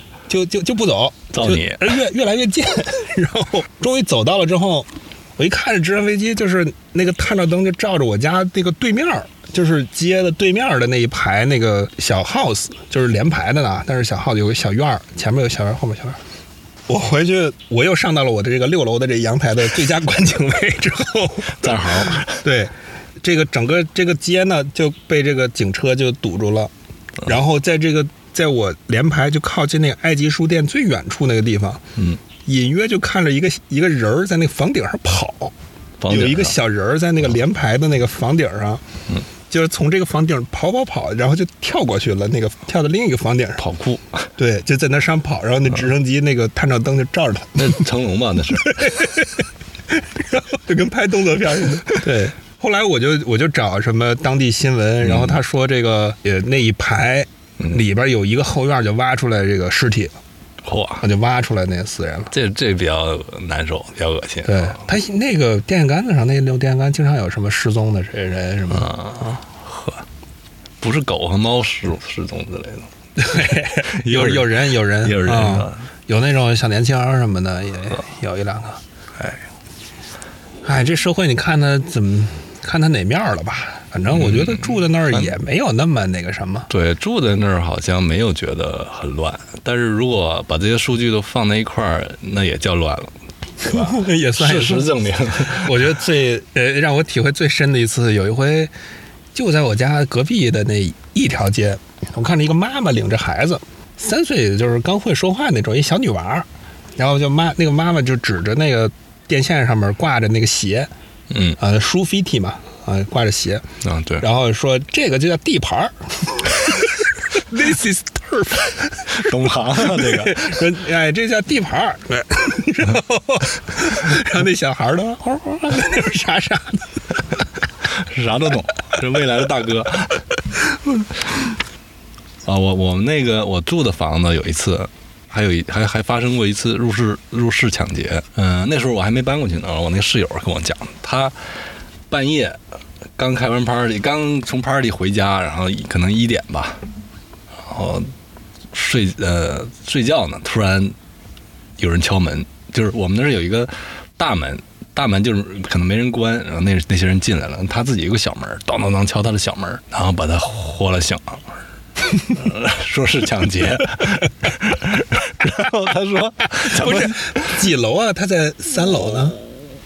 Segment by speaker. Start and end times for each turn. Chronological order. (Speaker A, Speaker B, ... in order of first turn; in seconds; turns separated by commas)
Speaker A: 0.3-16.2, Speaker B: 1.3-1.9, Speaker A: 16.9-26.7, Speaker B: 21.6-22.4, Speaker A: 27.2-31.8, Speaker A: 32.5-35.5, Speaker B: 36.0-36.5, Speaker A: 36.1-38.8, Speaker A: 39.5-43.6, Speaker B: 43.6-44.3, Speaker A: 44.4-47.8, Speaker B: 47.5-49.1, Speaker A: 48.6-60.1, Speaker B: 55.0-55.4, Speaker B: 60.6-61.0, Speaker A: 61.0-62.3, Speaker B: 62.3-64.8, Speaker A: 64.4-68.9, Speaker B: 68.7-70.0, Speaker B: 70.8-75.8, Speaker A: 73.2-78.8, Speaker B: 79.2-79.4, Speaker A: 80.6-86.7, Speaker B: 84.1-85.3, Speaker B: 86.7-95.8, Speaker A: 93.7-98.7, Speaker A: 99.3-106.5, Speaker A: 107.0-110.9, Speaker B: 111.3-111.6, Speaker A: 111.6-113.6, Speaker B: 113.8-114.2, Speaker A: 114.2-127.2, Speaker B: 119.0-120.6, Speaker B: 127.8-130.2, Speaker B: 132.4-141.3, Speaker B: 142.1-142.6, Speaker B: 143.2-146.8, Speaker B: 147.6-148.1, Speaker B: 148.7-150.9, Speaker B: 151.8-161.6, Speaker B: 162.2-167.6, Speaker A: 166.6-169.4, Speaker B: 168.7-169.5